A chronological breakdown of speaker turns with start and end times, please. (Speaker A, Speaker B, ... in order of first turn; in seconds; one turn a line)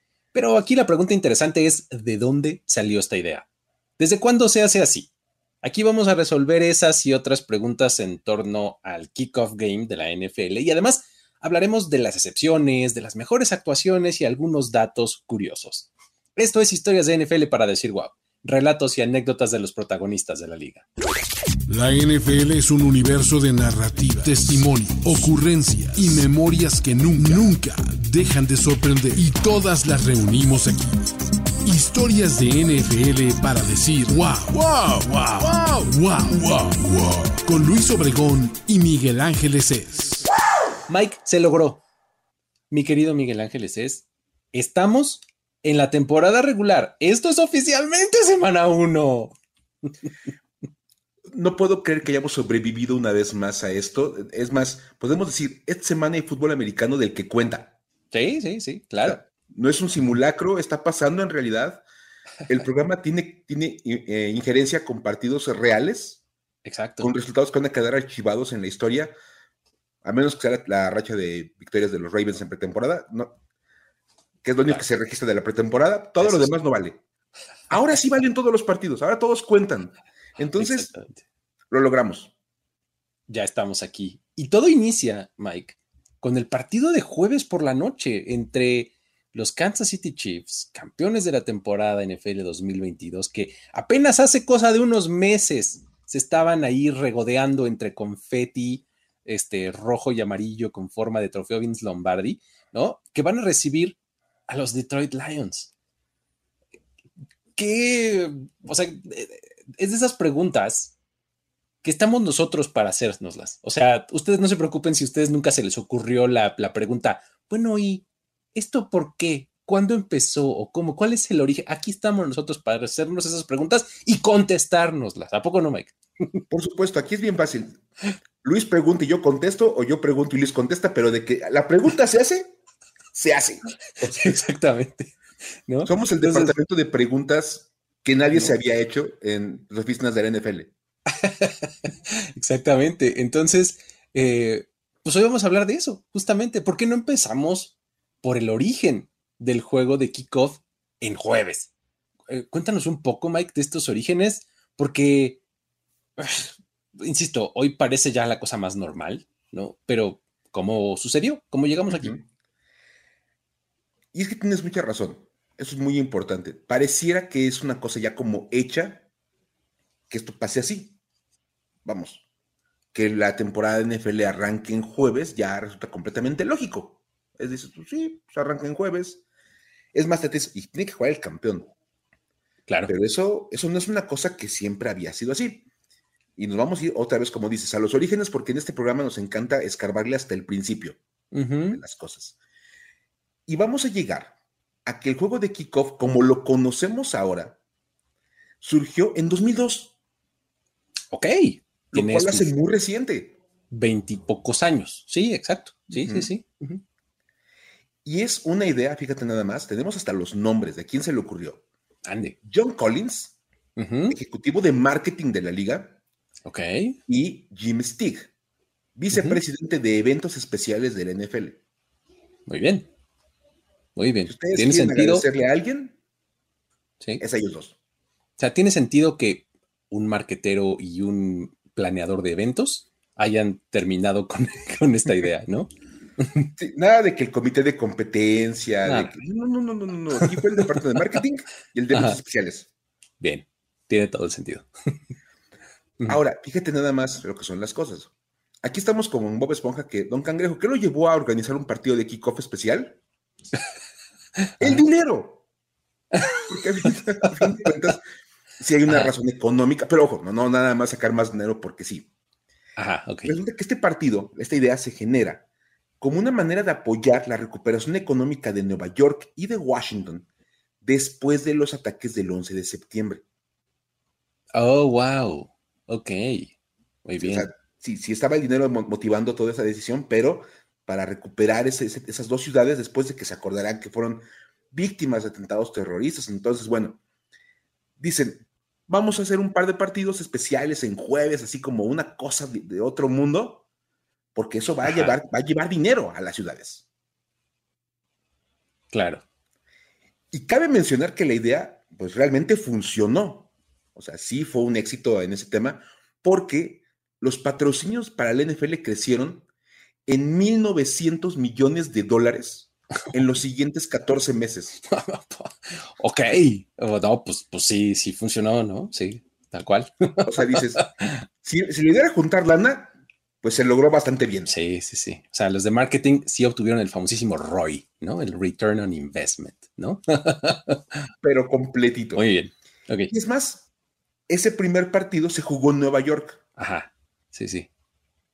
Speaker A: 0.3-3.5
Speaker A: 4.0-5.1
Speaker A: 5.6-20.9
Speaker B: 21.7-30.9
Speaker B: 31.6-40.3
Speaker A: 40.9-41.8
Speaker A: 42.7-49.3
Speaker C: 51.3-57.7
Speaker A: 58.1-59.2
Speaker C: 59.0-61.8
Speaker C: 62.5-66.2
Speaker A: 66.6-67.1
Speaker C: 67.0-69.1
Speaker C: 70.0-73.4
Speaker C: 74.4-77.0
Speaker A: 76.2-76.5
Speaker C: 77.7-80.9
Speaker A: 80.5-81.2
Speaker C: 81.7-82.3
Speaker A: 83.3-104.0
Speaker A: 104.5-105.7
Speaker A: 107.5-110.9
Speaker A: 111.8-126.4
Speaker C: 126.5-127.8
Speaker C: 128.4-132.5
Speaker C: 133.1-134.4
Speaker A: 134.2-136.5
Speaker C: 135.8-140.7
Speaker A: 141.1-151.7
Speaker A: 152.3-155.4
Speaker A: 156.2-162.1
Speaker C: 161.9-162.2
Speaker C: 164.1-169.0
Speaker C: 170.1-170.9
Speaker C: 171.8-172.2
Speaker C: 172.9-179.2
Speaker C: 179.9-181.7
Speaker C: 182.9-185.7
Speaker C: 186.4-191.0
Speaker A: 191.3-191.8
Speaker C: 191.7-192.3
Speaker C: 193.5-194.3
Speaker C: 194.8-197.6
Speaker C: 198.6-199.9
Speaker A: 201.1-202.5
Speaker C: 201.9-203.4
Speaker A: 203.7-206.8
Speaker C: 205.9-206.3
Speaker C: 208.0-211.6
Speaker A: 212.1-212.3
Speaker C: 212.4-213.3
Speaker A: 213.8-214.2
Speaker C: 214.1-216.0
Speaker A: 216.4-217.0
Speaker C: 217.1-218.3
Speaker C: 218.9-221.6
Speaker A: 219.1-219.4
Speaker A: 222.5-222.9
Speaker A: 223.9-225.2
Speaker C: 224.3-225.9
Speaker C: 227.2-227.8
Speaker A: 228.4-235.7
Speaker A: 236.2-236.5
Speaker C: 236.6-242.7
Speaker A: 238.8-239.1
Speaker A: 240.2-240.6
Speaker A: 241.9-242.2
Speaker A: 243.2-244.7
Speaker C: 246.1-248.1
Speaker C: 248.6-253.0
Speaker C: 254.6-255.4
Speaker C: 256.4-258.0
Speaker C: 258.6-262.1
Speaker A: 262.8-263.4
Speaker C: 263.2-265.4
Speaker C: 266.0-270.2
Speaker C: 270.8-273.2
Speaker A: 274.5-276.5
Speaker A: 277.1-277.5
Speaker C: 277.2-287.0
Speaker C: 288.0-293.6
Speaker C: 294.4-296.9
Speaker A: 294.8-295.2
Speaker A: 298.9-299.2
Speaker C: 300.3-309.4
Speaker C: 310.1-314.8
Speaker A: 314.9-321.2
Speaker C: 320.2-320.9
Speaker C: 321.4-324.5
Speaker A: 324.5-331.0
Speaker C: 331.2-332.2
Speaker A: 332.2-333.1
Speaker C: 333.1-333.7
Speaker C: 334.3-336.4
Speaker A: 336.6-337.7